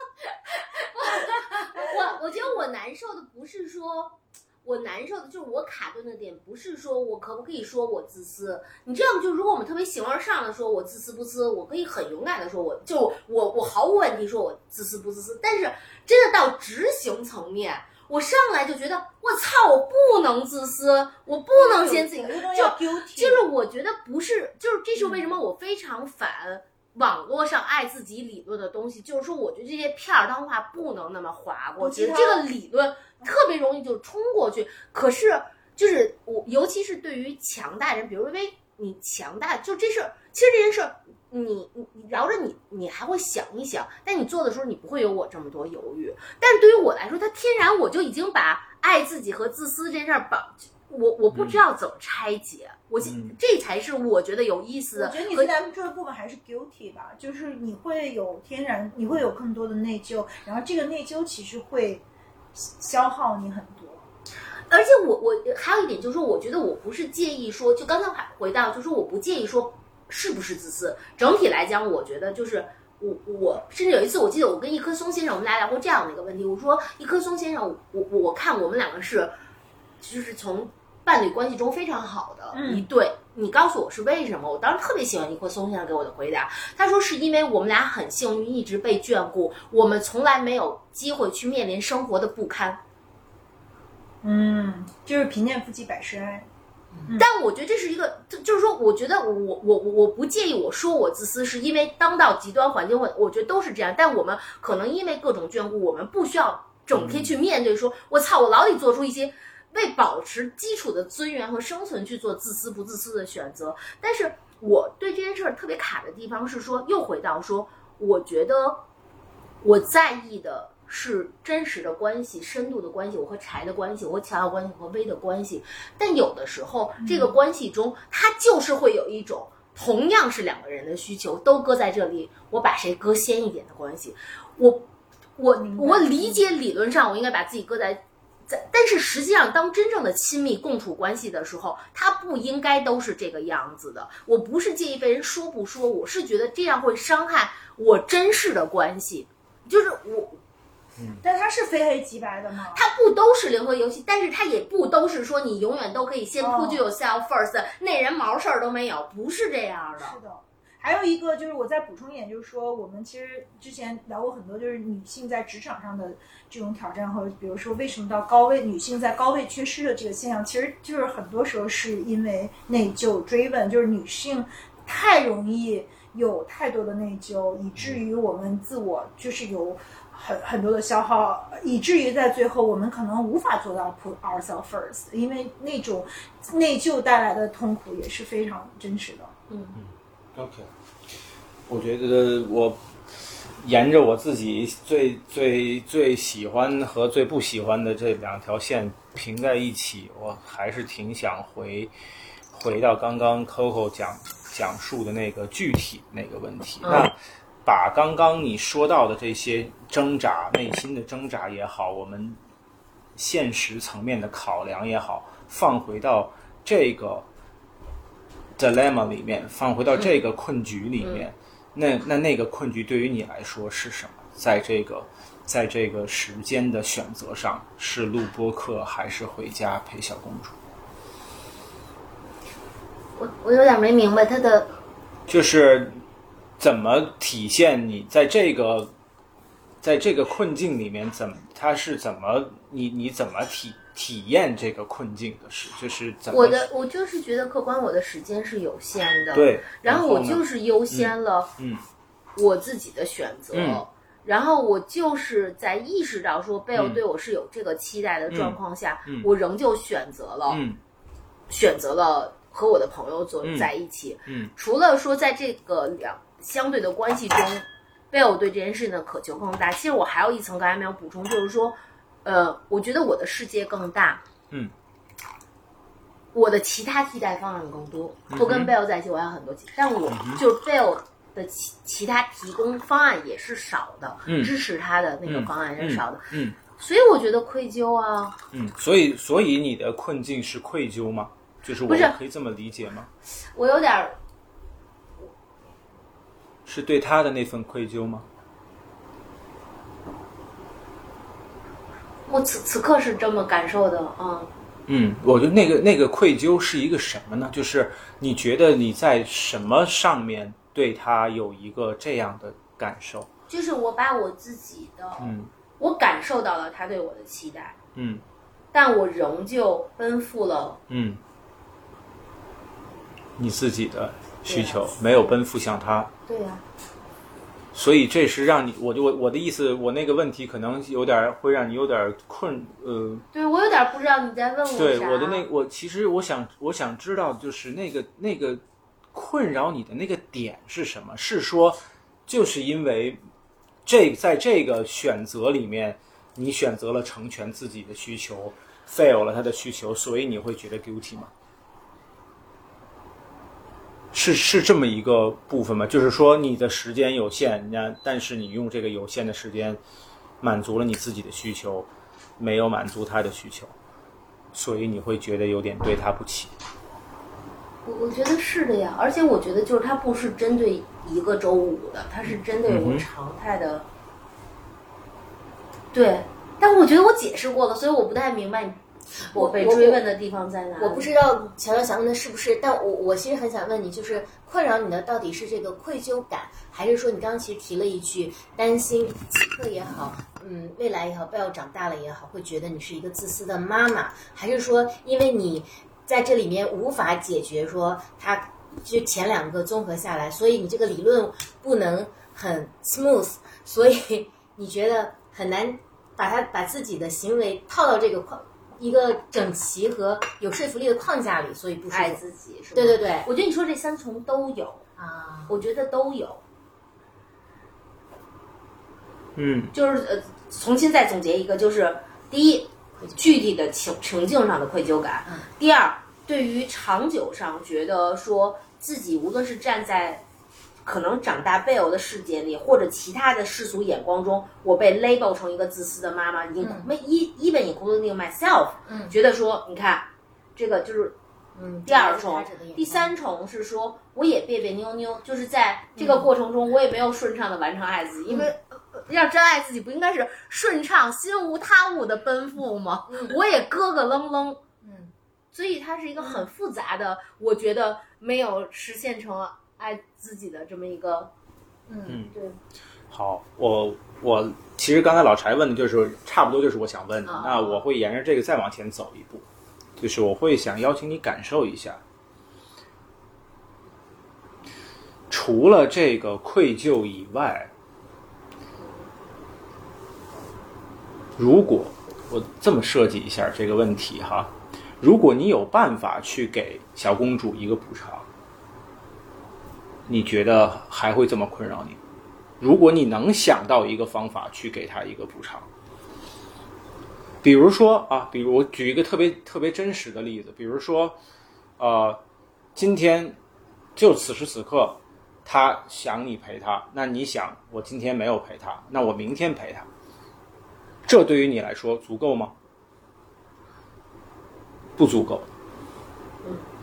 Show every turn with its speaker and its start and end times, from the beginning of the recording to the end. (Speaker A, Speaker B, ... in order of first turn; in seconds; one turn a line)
Speaker A: 0.7-55.5
Speaker B: 21.5-23.4
Speaker B: 25.0-25.2
Speaker B: 31.8-32.5
Speaker C: 51.3-51.6
Speaker C: 53.0-53.4
Speaker B: 55.0-62.0
Speaker B: 62.5-64.1
Speaker A: 64.7-79.4
Speaker A: 80.0-92.8
Speaker B: 82.5-82.9
Speaker B: 94.2-96.5
Speaker A: 97.1-118.8
Speaker C: 106.9-107.3
Speaker A: 119.6-150.4
Speaker B: 127.0-127.3
Speaker B: 135.6-136.5
Speaker B: 151.2-152.8
Speaker A: 152.7-160.2
Speaker B: 156.4-156.8
Speaker B: 160.0-189.3
Speaker C: 189.8-190.7
Speaker C: 191.7-192.8
Speaker C: 193.6-201.9
Speaker C: 202.5-212.4
Speaker C: 213.2-217.3
Speaker C: 218.6-230.6
Speaker A: 233.2-234.7
Speaker C: 235.3-236.0
Speaker C: 236.6-238.9
Speaker C: 239.8-246.7
Speaker A: 246.3-251.5
Speaker C: 249.3-251.8
Speaker A: 252.4-260.6
Speaker C: 253.5-253.8
Speaker C: 256.7-257.0
Speaker C: 258.3-259.3
Speaker C: 260.5-260.8
Speaker A: 261.5-274.2
Speaker C: 263.4-263.7
Speaker C: 264.3-264.5
Speaker A: 276.3-286.2
Speaker C: 278.3-278.7
Speaker C: 280.1-280.4
Speaker C: 284.3-284.5
Speaker C: 285.2-286.6
Speaker A: 286.8-288.4
Speaker C: 288.5-293.1
Speaker A: 291.9-292.1
Speaker A: 293.5-294.2
Speaker C: 296.7-298.3
Speaker A: 302.3-304.5
Speaker C: 304.9-313.3
Speaker A: 313.5-317.8
Speaker C: 315.2-315.5
Speaker C: 317.9-318.2
Speaker A: 318.7-320.8
Speaker C: 320.9-321.2
Speaker C: 323.4-326.1
Speaker A: 324.5-324.9
Speaker A: 326.3-326.6
Speaker C: 327.7-333.2
Speaker A: 333.3-335.5
Speaker C: 334.7-338.6
Speaker C: 339.1-343.2
Speaker C: 343.9-351.3
Speaker C: 354.1-359.8
Speaker C: 360.4-363.8
Speaker C: 364.5-366.5
Speaker A: 367.9-373.9
Speaker C: 372.3-373.1
Speaker A: 375.9-382.7
Speaker D: 379.2-380.1
Speaker D: 380.7-413.3
Speaker A: 411.9-414.9
Speaker D: 415.0-415.6
Speaker A: 415.5-416.4
Speaker C: 419.4-419.7
Speaker A: 419.7-430.2
Speaker A: 430.9-441.2
Speaker D: 436.6-436.9
Speaker D: 438.9-439.1
Speaker D: 441.6-443.1
Speaker A: 441.9-454.6
Speaker D: 446.0-446.3
Speaker D: 454.8-455.1
Speaker A: 455.5-461.3
Speaker C: 462.1-462.4
Speaker A: 462.1-462.5
Speaker C: 463.1-469.5
Speaker A: 467.3-467.7
Speaker C: 470.0-472.0
Speaker C: 475.3-477.7
Speaker C: 481.4-488.3
Speaker C: 490.1-492.0
Speaker C: 492.6-495.7
Speaker C: 497.4-501.2
Speaker C: 501.8-502.2
Speaker C: 502.8-503.4
Speaker C: 504.0-509.9
Speaker C: 511.1-512.6
Speaker C: 515.0-515.5